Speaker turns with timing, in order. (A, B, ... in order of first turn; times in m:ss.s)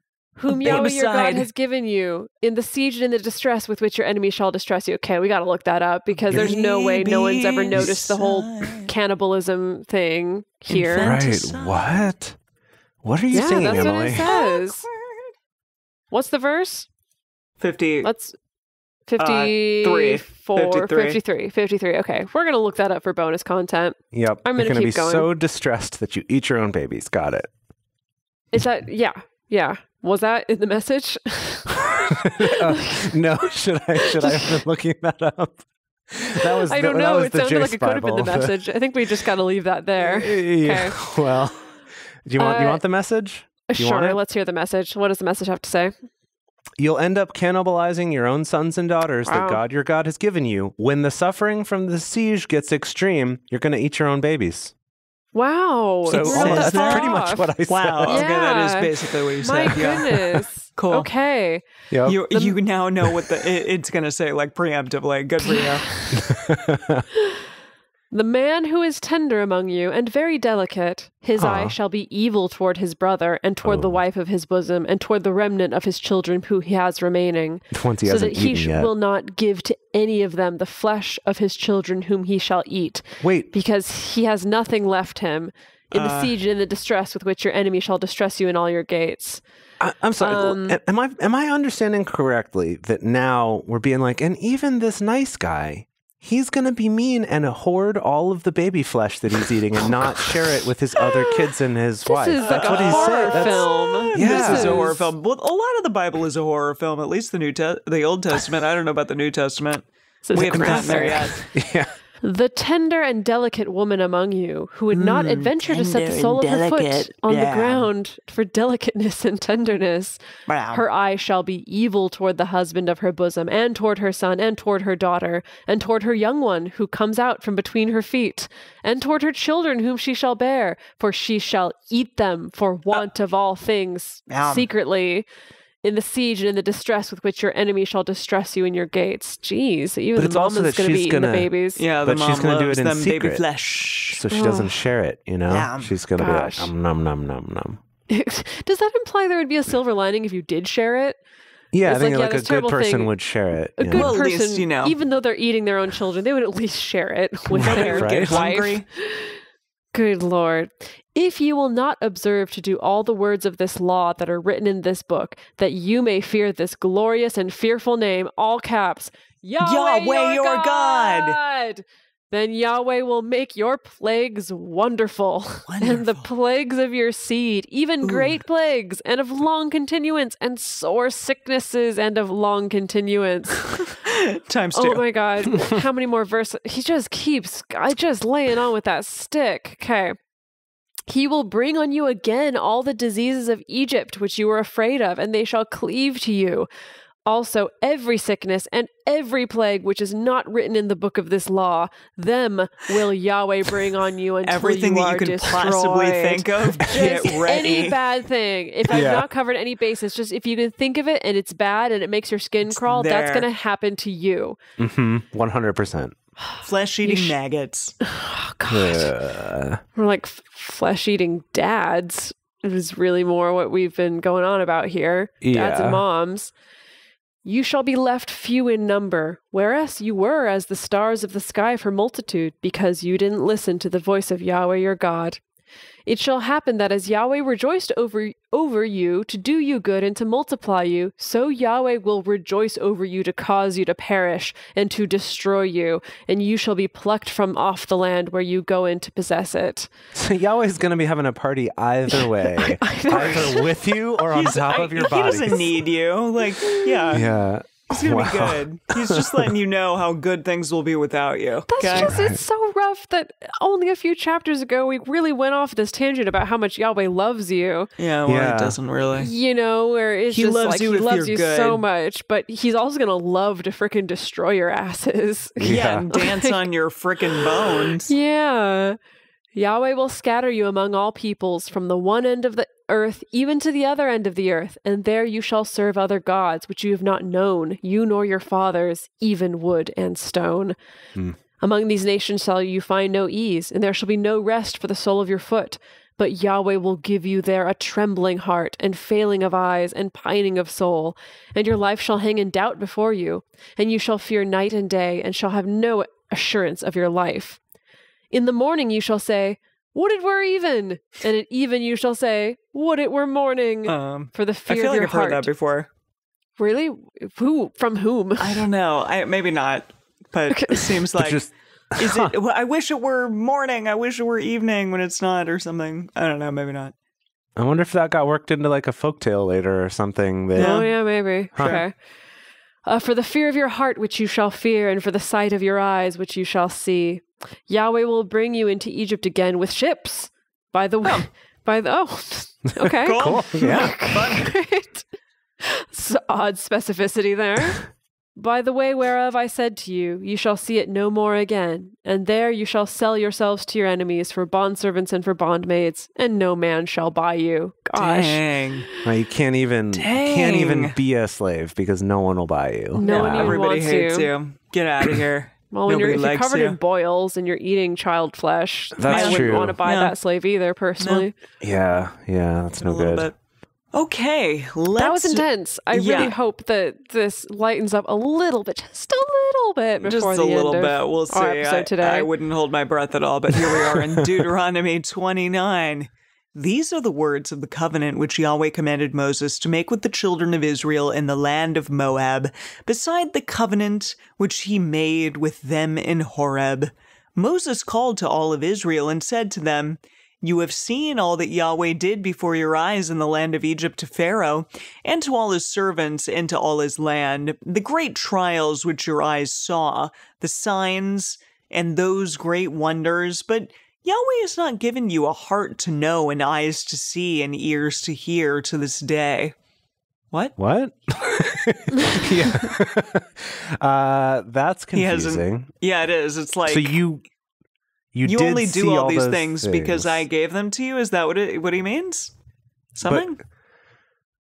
0:00.4-0:11.2 A
0:00.5-0:01.5 B
0:06.3-0:08.9 B
0:10.7-0:12.1 B
0:11.0-0:12.4 C
0:13.0-0:14.3 C
0:13.3-0:14.9 A
0:13.6-0:15.3 B
0:16.1-0:16.9 A
0:17.6-0:18.1 B
0:18.0-0:18.4 A
0:19.1-0:25.3 A
0:19.2-0:21.2 B
0:24.1-0:27.5 C
0:28.5-0:33.1 A
0:32.4-0:38.6 C
0:34.0-0:34.5 A
0:36.7-0:41.1 A
0:40.0-0:41.7 C
0:42.2-0:44.2 C
0:42.4-0:42.8 A
0:43.7-0:45.9 A
0:46.8-0:54.7 C
0:49.3-0:49.6 A
0:55.3-0:57.5 A
0:56.0-0:58.2 C
0:56.1-1:01.1 B
0:58.0-0:58.9 A
0:59.4-1:02.6 A
1:01.9-1:02.2 C
1:02.0-1:05.9 B
1:05.6-1:06.1 A
1:06.1-1:07.0 C
1:08.1-1:29.4 A
1:11.4-1:11.8 C
1:13.6-1:14.0 C
1:17.7-1:18.9 C
1:23.2-1:23.5 C
1:25.9-1:26.3 B
1:29.8-1:44.9 C
1:30.2-1:30.8 A
1:42.0-1:45.1 A
1:42.4-1:51.4 B
1:50.3-1:51.3 A
1:50.3-1:51.9 C
1:52.2-2:00.2 A
1:54.9-1:57.8 B
2:00.5-2:00.8 B
2:00.7-2:15.3 A
2:14.3-2:14.7 B
2:15.8-2:21.8 A
2:20.2-2:21.5 C
2:21.8-2:24.2 B
2:22.0-2:23.4 C
2:24.1-2:27.8 C
2:24.3-2:24.8 A
2:25.5-2:25.9 B
2:26.2-2:26.7 A
2:28.1-2:31.2 A
2:31.7-2:34.1 C
2:31.8-2:33.1 A
2:33.8-2:39.4 A
2:33.9-2:35.0 B
2:37.5-2:38.8 B
2:37.6-2:38.5 C
2:39.9-3:03.8 A
2:49.6-2:51.4 B
2:55.7-2:56.2 B
2:58.0-2:58.4 B
3:04.0-3:05.1 B
3:04.8-3:10.2 A
3:11.1-3:16.7 A
3:17.3-3:34.6 A
3:24.4-3:28.0 B
3:28.9-3:29.3 C
3:32.7-3:33.5 B
3:34.8-3:36.2 C
3:36.6-3:38.0 B
3:37.0-3:37.3 A
3:38.0-3:39.1 A
3:38.7-3:39.8 C
3:40.0-3:46.5 A
3:45.4-3:46.0 C
3:47.4-3:55.4 A
3:56.1-4:09.9 A
4:10.1-4:15.8 C
4:12.1-4:13.8 A
4:14.3-4:17.3 B
4:14.7-4:15.6 A
4:16.6-4:17.2 A
4:17.1-4:19.4 C
4:17.9-4:22.1 B
4:21.7-4:27.9 A
4:21.9-4:22.4 C
4:28.0-4:29.3 B
4:28.3-4:28.8 C
4:29.2-4:36.6 A
4:30.3-4:31.8 B
4:35.6-4:36.0 C
4:35.6-4:38.1 B
4:37.7-4:39.0 A
4:39.6-4:50.8 A
4:51.6-5:07.6 A
5:08.3-5:15.5 A
5:13.9-5:15.9 B
5:16.6-5:18.7 A
5:18.4-5:26.9 B
5:20.5-5:20.8 A
5:21.2-5:22.3 C
5:27.6-5:30.8 C
5:30.6-5:30.9 B
5:30.6-5:32.0 A
5:31.5-5:31.8 B
5:31.6-5:31.8 C
5:32.9-5:45.1 A
5:43.0-5:44.5 B
5:43.2-5:43.9 C
5:45.6-5:59.1 A
5:58.0-5:58.9 B
5:59.0-6:03.6 C
5:59.9-6:01.0 B
6:03.0-6:04.3 A
6:03.0-6:06.8 B
6:05.7-6:11.3 A
6:09.0-6:09.8 C
6:09.1-6:10.2 B
6:11.0-6:11.3 B
6:11.6-6:13.3 C
6:12.8-6:13.4 B
6:13.9-6:16.3 B
6:15.0-6:22.3 A
6:20.0-6:59.5 B
7:00.3-7:00.6 B
7:00.6-7:05.7 C
7:04.9-7:07.0 B
7:06.7-7:07.2 C
7:08.1-7:10.3 C
7:08.2-7:12.3 B
7:13.0-7:13.4 B